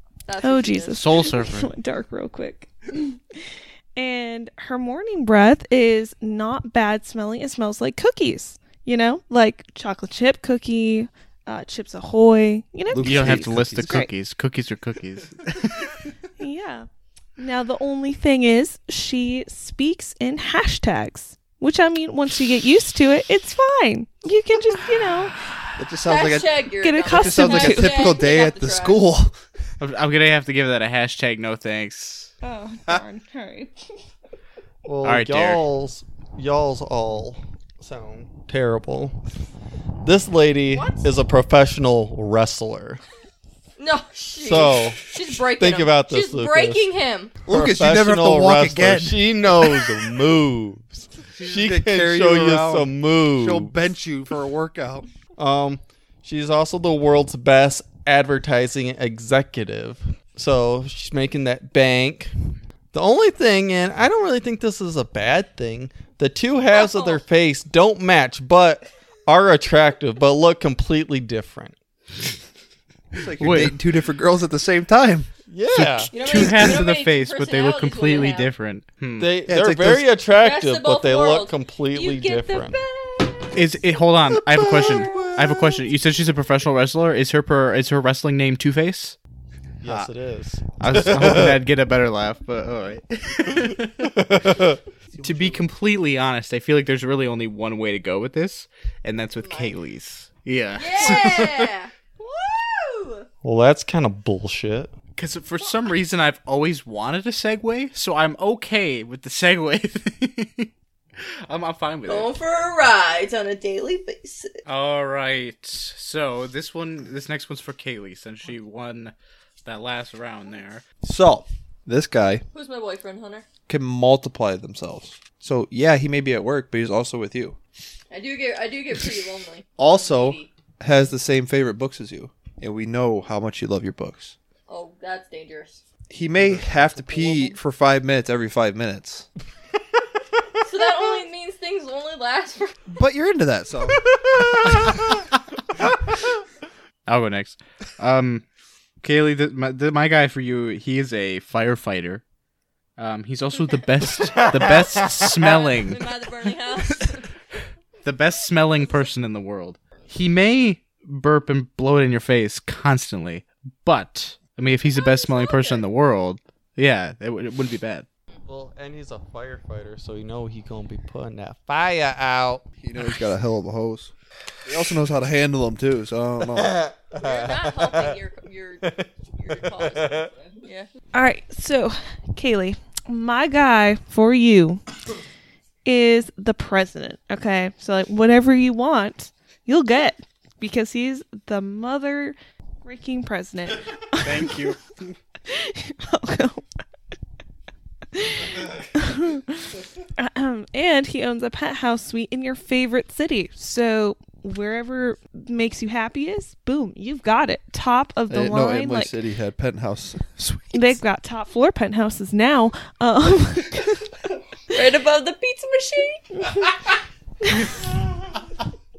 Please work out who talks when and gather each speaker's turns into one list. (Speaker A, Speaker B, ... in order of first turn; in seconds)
Speaker A: 0.2-1.0, 26.0-29.0, 40.7-41.1, 43.8-47.3, 66.7-67.2, 76.1-78.5, 80.4-83.5, 85.0-85.3, 99.4-99.7, 100.8-103.3, 112.1-114.6, 122.5-123.5, 128.1-130.5, 134.7-135.8, 137.1-137.5, 140.6-142.9, 155.4-157.3, 164.8-165.8, 177.2-180.9, 214.7-216.3
Speaker B: 0.4-14.1, 16.4-25.5, 26.8-28.2, 32.4-33.9, 181.1-184.8, 185.8-194.7, 195.5-196.7, 198.1-209.2, 210.7-214.2, 216.4-216.7, 217.4-217.8
Speaker C: 0.9-1.7, 13.0-15.9, 29.8-32.3, 35.0-35.6, 73.4-73.8, 75.7-79.3, 83.5-89.2, 90.8-94.2, 95.2-101.7, 105.2-112.3, 114.7-119.1, 119.6-120.8, 147.1-148.4, 149.0-152.2, 153.0-156.0, 158.0-168.1, 194.2-195.2
Speaker D: 12.9-14.1, 25.8-29.4, 47.5-49.7, 51.4-55.0, 73.1-75.3, 79.5-80.1, 89.8-90.1, 91.0-91.5, 95.1-95.7, 121.0-122.4, 123.7-127.6, 129.8-134.3, 136.1-139.3, 142.9-144.0, 144.7-144.9, 172.8-174.1, 174.7-176.8, 208.3-211.0
Speaker E: 34.8-39.2, 40.0-43.0, 44.4-46.8, 47.5-53.8, 55.4-62.3, 62.9-71.7, 75.5-76.1, 79.2-82.8, 84.5-85.5, 89.8-91.6, 94.0-94.8, 103.4-104.9, 144.2-145.1, 154.2-155.3, 168.5-172.6, 176.4-178.2, 178.8-180.3